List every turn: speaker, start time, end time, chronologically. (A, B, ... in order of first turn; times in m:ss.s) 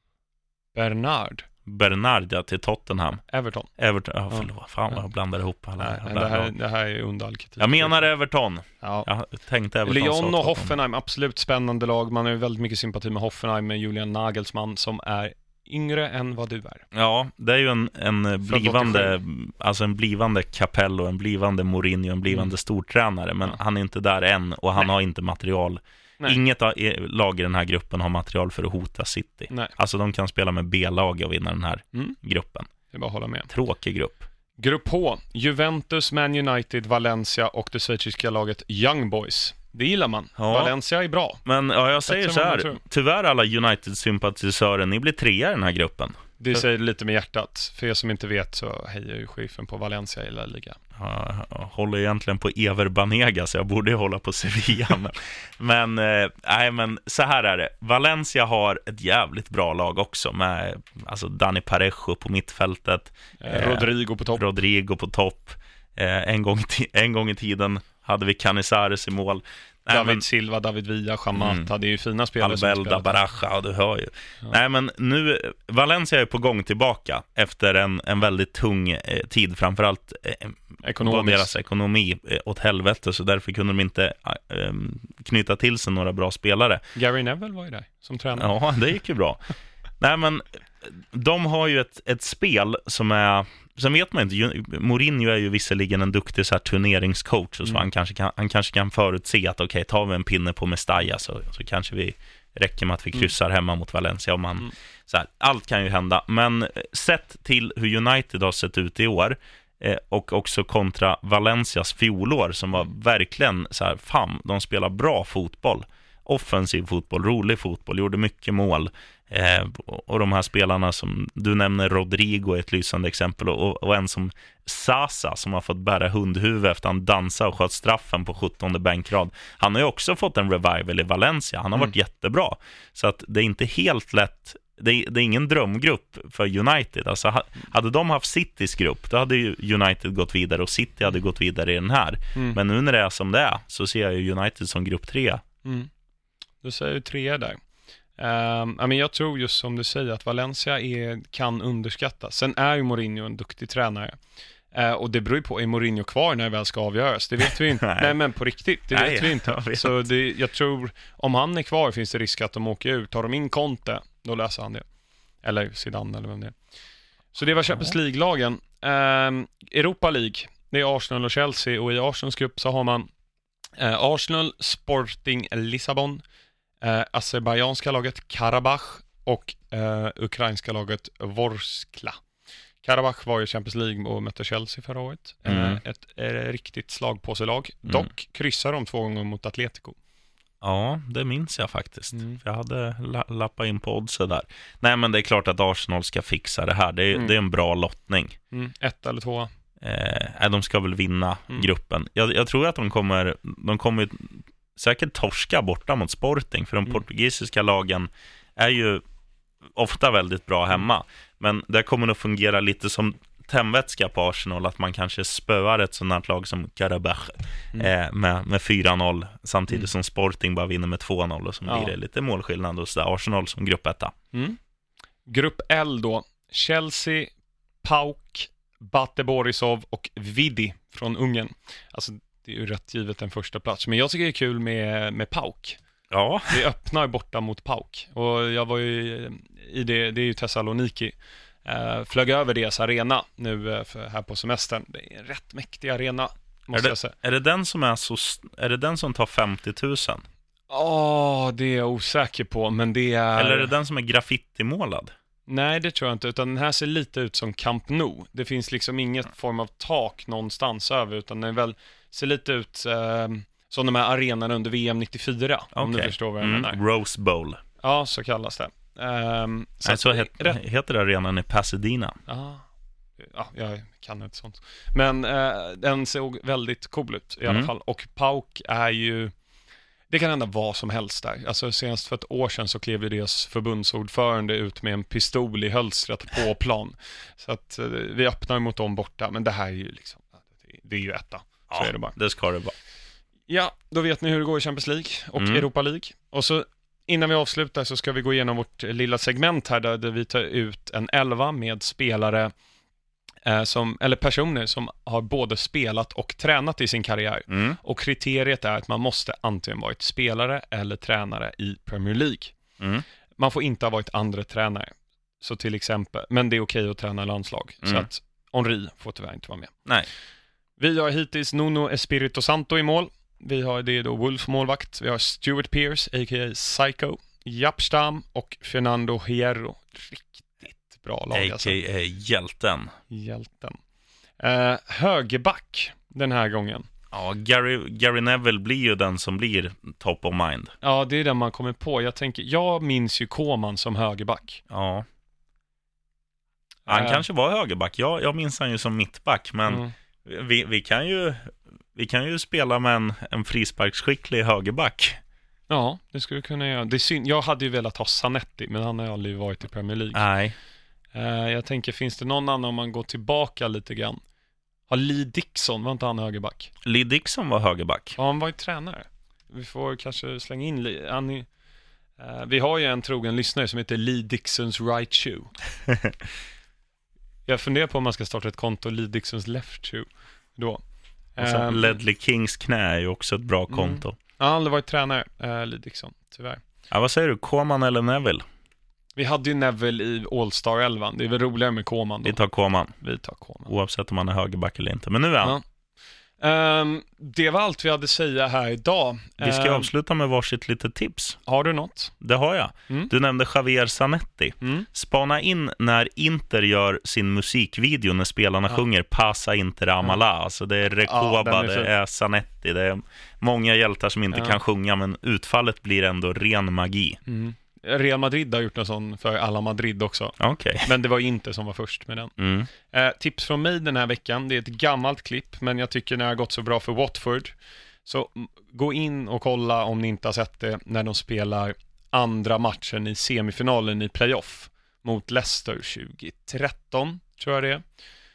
0:00.7-0:01.5 A
0:01.7-0:03.2 B
0:03.3-0:03.7 A
0:03.8-0:06.5 B
0:04.3-0:05.0 A
0:05.8-0:08.1 A
0:07.6-0:10.7 B
0:08.8-0:09.1 A
0:09.8-0:16.9 A
0:16.9-0:32.7 B
0:18.5-0:19.2 A
0:32.9-0:33.5 A
0:33.5-0:34.3 B
0:34.6-0:41.4 A
0:40.4-0:40.7 B
0:41.4-0:46.6 B
0:42.0-0:42.8 A
0:46.4-0:50.8 A
0:51.0-1:10.2 B
1:03.4-1:04.4 A
1:09.9-1:13.2 A
1:11.4-1:11.7 B
1:12.4-1:26.8 B
1:20.8-1:21.5 A
1:27.0-1:28.6 A
1:28.4-1:29.4 B
1:30.0-2:25.4 B
2:25.6-2:25.9 A
2:26.6-2:27.6 A
2:28.2-2:34.2 A
2:34.7-2:44.9 A
2:37.8-2:38.2 B
2:38.9-2:40.1 B
2:45.4-2:46.6 A
2:47.3-2:53.1 A
2:53.8-2:56.2 A
2:56.8-3:02.2 A
3:02.8-3:10.0 A
3:05.5-3:05.8 B
3:10.6-3:18.4 B
3:12.1-3:12.4 A
3:18.5-3:19.5 A
3:19.8-3:29.0 B
3:29.7-3:44.1 B
3:41.7-3:42.0 A
3:44.3-3:44.6 A
3:45.3-3:47.3 A
3:47.8-3:55.8 A
3:56.1-3:56.6 B
3:56.5-4:07.1 A
4:06.7-4:10.2 B
4:10.7-4:13.7 A
4:13.4-4:15.1 B
4:15.5-4:26.8 A
4:25.8-4:27.6 B
4:27.8-4:30.6 A
4:29.9-4:32.2 B
4:32.3-4:32.7 A
4:33.2-4:39.3 A
4:40.1-4:52.2 A
4:51.7-4:52.7 B
4:53.5-5:02.5 A
4:55.4-4:55.6 B
5:03.4-5:12.6 A
5:07.5-5:07.8 B
5:12.8-5:13.0 B
5:13.4-5:19.7 A
5:20.8-5:31.8 A
5:31.3-5:32.9 B
5:33.1-5:33.8 A
5:34.4-5:36.9 A
5:37.1-5:40.7 B
5:40.8-5:44.6 A
5:44.7-5:45.1 B
5:46.9-5:47.2 A
5:46.9-5:55.2 B
5:49.7-5:49.9 A
5:55.7-6:00.3 A
6:00.1-6:00.6 B
6:01.1-6:04.2 A
6:04.9-6:06.7 A
6:06.8-6:08.2 B
6:08.2-6:11.5 A
6:12.2-6:15.5 A
6:17.5-6:20.8 A
6:21.4-6:22.0 A
6:21.4-6:24.2 B
6:23.7-6:26.6 A
6:26.9-6:28.4 B
6:29.2-6:32.4 A
6:32.2-6:32.9 B
6:33.0-6:33.7 A
6:33.7-6:35.6 B
6:36.4-6:39.9 A
6:39.4-6:41.4 B
6:41.5-6:42.1 A
6:42.2-6:57.2 B
6:44.6-6:44.9 A
6:51.0-6:51.9 A
6:54.3-6:54.6 A
6:57.3-7:17.8 A
7:00.4-7:00.9 B
7:02.4-7:02.7 B